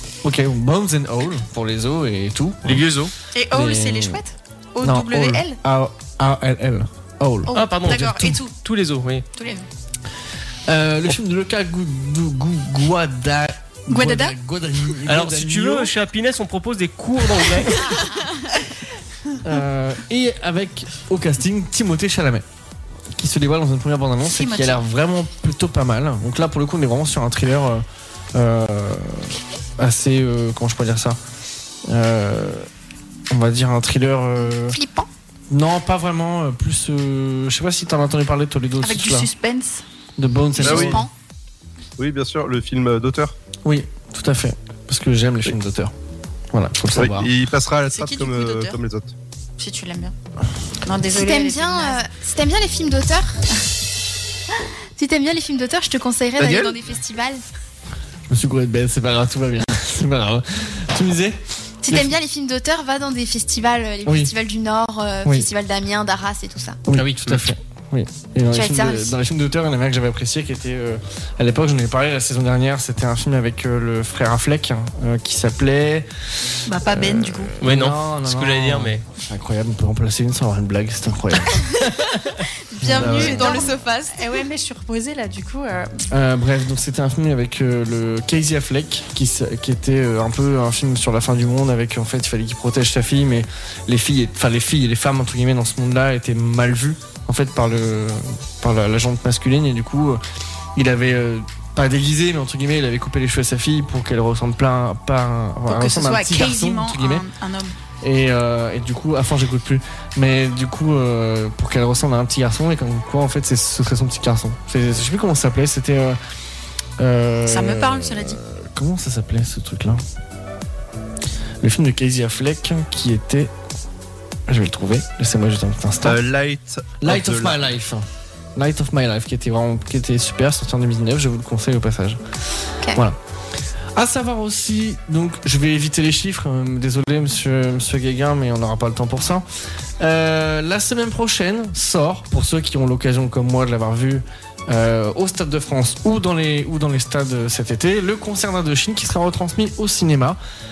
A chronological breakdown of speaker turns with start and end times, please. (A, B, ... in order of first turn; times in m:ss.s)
0:00.2-0:02.9 A
0:02.6-0:03.1 B
0:03.3-0:05.6 C
0:03.5-0:04.2 A
0:04.8-0:08.4 A
0:07.5-0:08.5 C
0:07.5-0:09.3 B
0:09.4-0:09.6 C
0:10.7-0:15.9 A
0:13.9-0:14.3 C
0:15.0-0:17.9 B
0:17.8-0:18.3 C
0:19.4-0:22.4 A
0:23.2-0:31.2 A
0:24.2-0:24.8 C
0:31.9-0:32.7 A
0:33.3-0:34.8 A
0:34.4-0:35.1 D
0:35.5-0:39.3 A
0:38.8-0:39.8 C
0:40.2-0:41.0 A
0:40.6-0:41.0 C
0:40.6-0:41.1 D
0:40.6-0:41.0 E
0:42.0-0:43.3 E
0:43.6-0:45.9 A
0:46.5-0:47.3 A
0:46.9-0:49.1 E
0:47.9-0:48.8 C
0:49.6-0:50.1 C
0:50.8-0:52.0 C
0:51.1-0:53.4 D
0:55.0-0:57.4 D
0:56.4-0:56.8 E
0:58.3-1:02.2 A
1:01.8-1:06.8 D
1:04.0-1:04.3 A
1:06.9-1:16.1 A
1:06.9-1:07.5 B
1:08.5-1:09.2 D
1:16.6-1:17.5 C
1:16.7-1:21.6 A
1:17.6-1:19.0 B
1:22.8-1:24.2 D
1:22.8-1:23.6 A
1:22.8-1:26.0 C
1:26.1-1:40.2 A
1:40.8-1:47.3 A
1:45.7-1:47.7 C
1:48.0-1:56.2 A
1:57.0-2:00.0 A
1:57.4-1:58.4 C
2:01.6-2:03.5 A
2:04.5-2:06.2 A
2:06.0-2:07.6 E
2:07.0-2:08.0 A
2:08.6-2:12.2 A
2:13.9-2:19.4 A
2:20.0-2:30.4 A